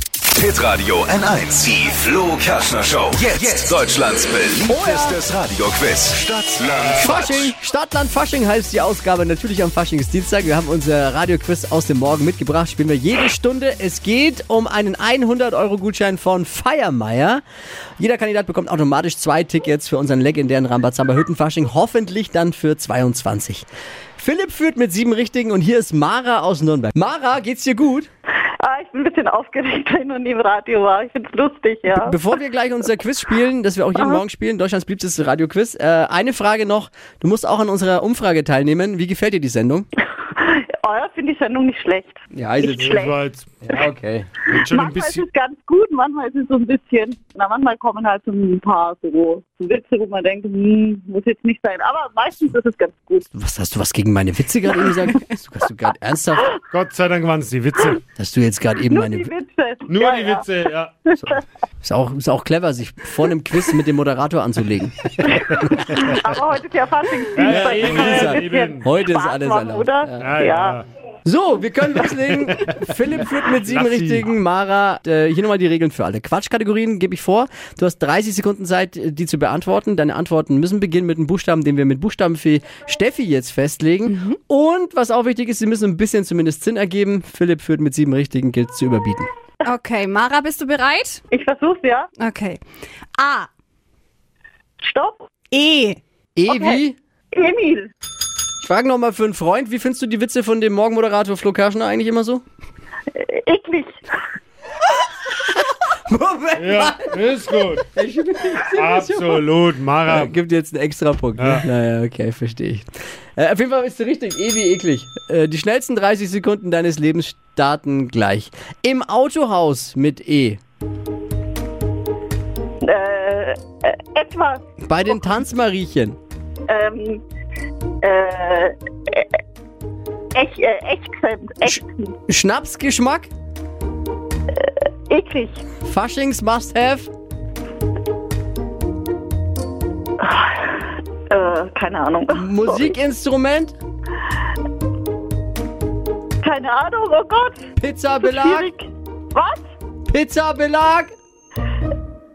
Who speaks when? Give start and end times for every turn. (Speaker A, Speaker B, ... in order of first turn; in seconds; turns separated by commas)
Speaker A: 0.3-7.5, Speaker B: 4.7-5.2, Speaker B: 6.9-17.4, Speaker B: 18.0-23.6, Speaker B: 24.2-28.1, Speaker C: 28.6-32.2, Speaker B: 31.9-39.9, Speaker C: 40.2-43.2, Speaker B: 42.3-43.0, Speaker D: 42.8-43.5, Speaker B: 43.6-44.3, Speaker D: 44.5-45.2, Speaker C: 44.6-53.3, Speaker B: 53.3-56.6, Speaker D: 56.7-58.0, Speaker B: 58.2-59.3, Speaker C: 58.9-60.5, Speaker D: 59.9-60.9, Speaker C: 61.1-61.3, Speaker B: 61.2-66.2, Speaker C: 65.2-70.8, Speaker D: 67.3-68.9, Speaker B: 67.5-70.3, Speaker D: 70.2-70.8, Speaker B: 71.2-89.3, Speaker D: 73.7-74.3, Speaker E: 89.6-91.2, Speaker C: 91.3-92.1, Speaker E: 92.2-92.6, Speaker E: 93.2-93.5, Speaker C: 94.8-95.3, Speaker E: 95.5-96.0, Speaker B: 96.4-97.0, Speaker C: 96.5-96.8, Speaker C: 97.3-97.9, Speaker B: 98.6-102.4, Speaker C: 103.1-103.9, Speaker B: 105.3-109.5, Speaker D: 106.5-107.9, Speaker D: 108.7-110.3, Speaker B: 110.1-120.6, Speaker D: 111.4-111.7, Speaker C: 122.8-124.6, Speaker B: 124.8-126.2, Speaker C: 126.7-127.2, Speaker C: 128.0-129.3, Speaker C: 130.3-132.1, Speaker B: 131.7-133.3, Speaker C: 134.5-135.6, Speaker B: 135.8-137.1, Speaker C: 140.2-142.9, Speaker B: 142.3-143.7, Speaker C: 146.4-149.6, Speaker B: 147.8-148.7, Speaker B: 150.1-151.1